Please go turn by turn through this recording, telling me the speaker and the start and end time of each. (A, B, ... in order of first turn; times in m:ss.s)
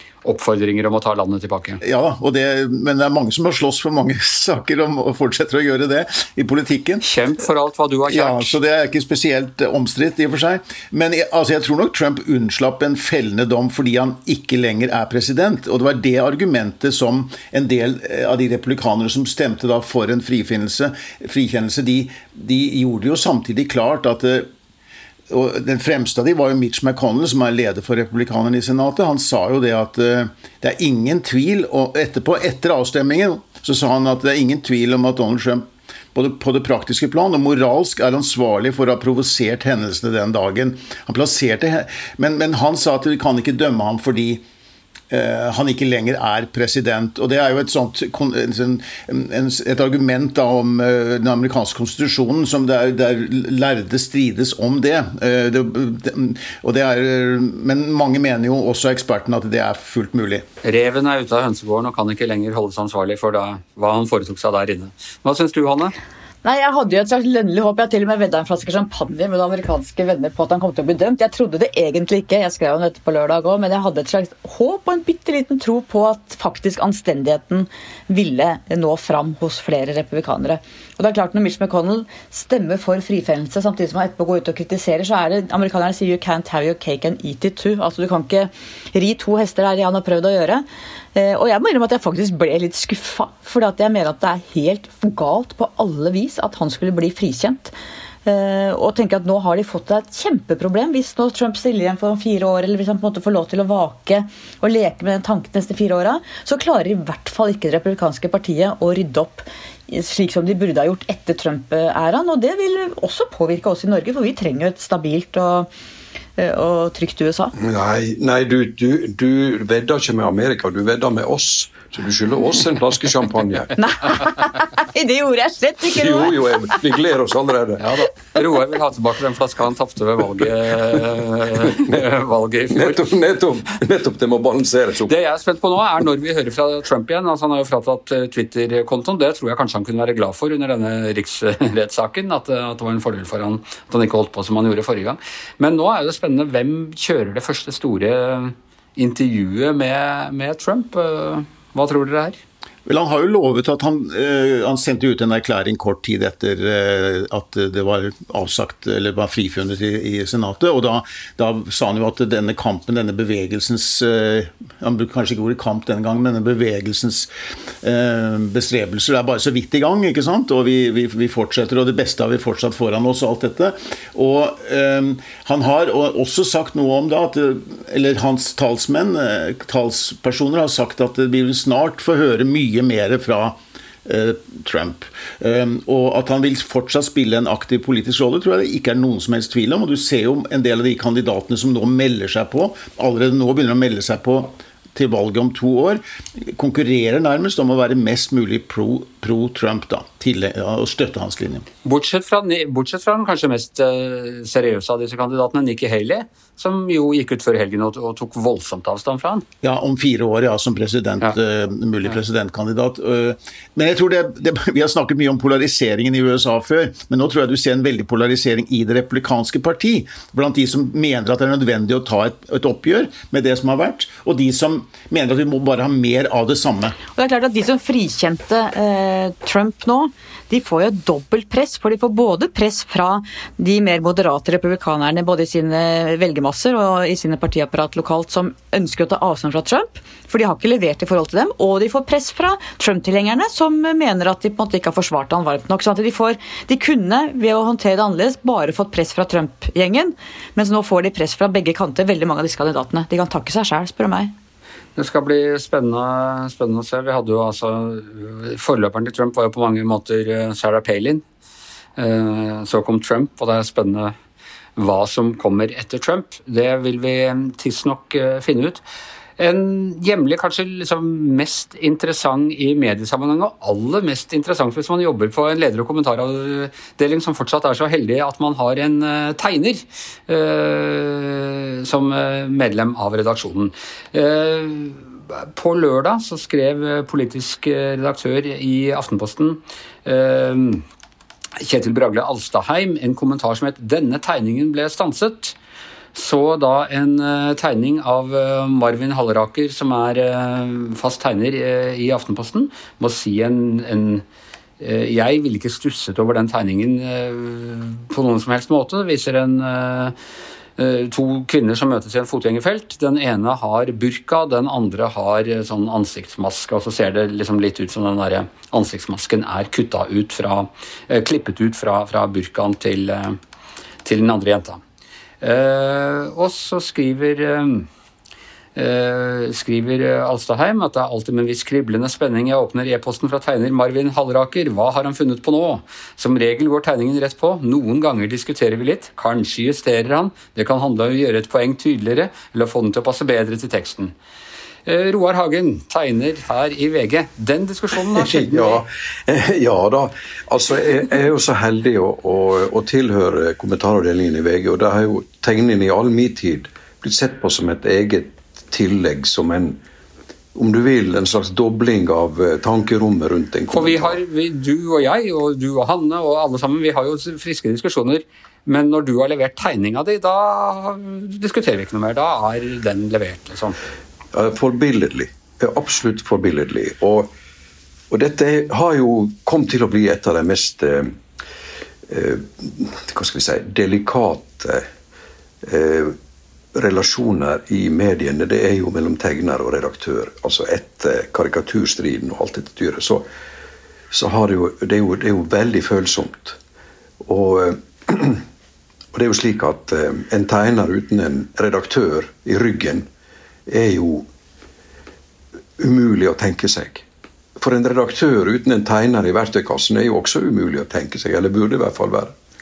0:00.2-0:01.8 A
0:01.8-0:07.0 B
0:07.0-0:08.6 A
0:08.1-0:24.5 B
0:25.3-0:35.6 B
0:36.1-0:44.4 B
0:45.1-1:00.4 B
1:00.6-1:05.9 A
1:06.4-1:37.7 C
1:38.2-1:55.7 C
1:56.4-1:57.5 C
1:57.6-2:03.8 D
2:03.8-2:06.4 C
2:05.9-2:07.9 D
2:07.8-2:13.0 A
2:11.7-2:11.9 D
2:12.7-2:15.1 D
2:15.1-2:32.4 A
2:32.9-2:47.3 B
2:47.8-3:21.6 B
3:21.8-3:29.4 A
3:29.6-3:47.0 B
3:47.1-4:14.3 C
4:15.0-4:21.2 A
4:22.0-4:24.1 A
4:24.8-4:28.8 A
4:29.4-4:50.8 A
4:51.6-4:55.6 A
4:56.1-5:04.2 A
5:04.8-5:10.1 A
5:10.8-5:23.4 A
5:24.0-5:24.8 A
5:25.4-5:27.9 A
5:28.8-5:44.1 A
5:44.9-5:48.8 A
5:48.1-5:59.8 D
6:00.5-6:04.2 D
6:03.7-6:13.8 A
6:14.3-6:17.3 D
6:18.1-6:21.2 D
6:22.1-6:24.9 D
6:25.6-6:26.2 D
6:26.8-6:33.2 D
6:34.1-6:36.6 D
6:37.2-6:38.4 D
6:39.1-6:43.1 D
6:43.7-6:44.3 D
6:45.8-6:47.0 D
6:47.6-6:52.3 D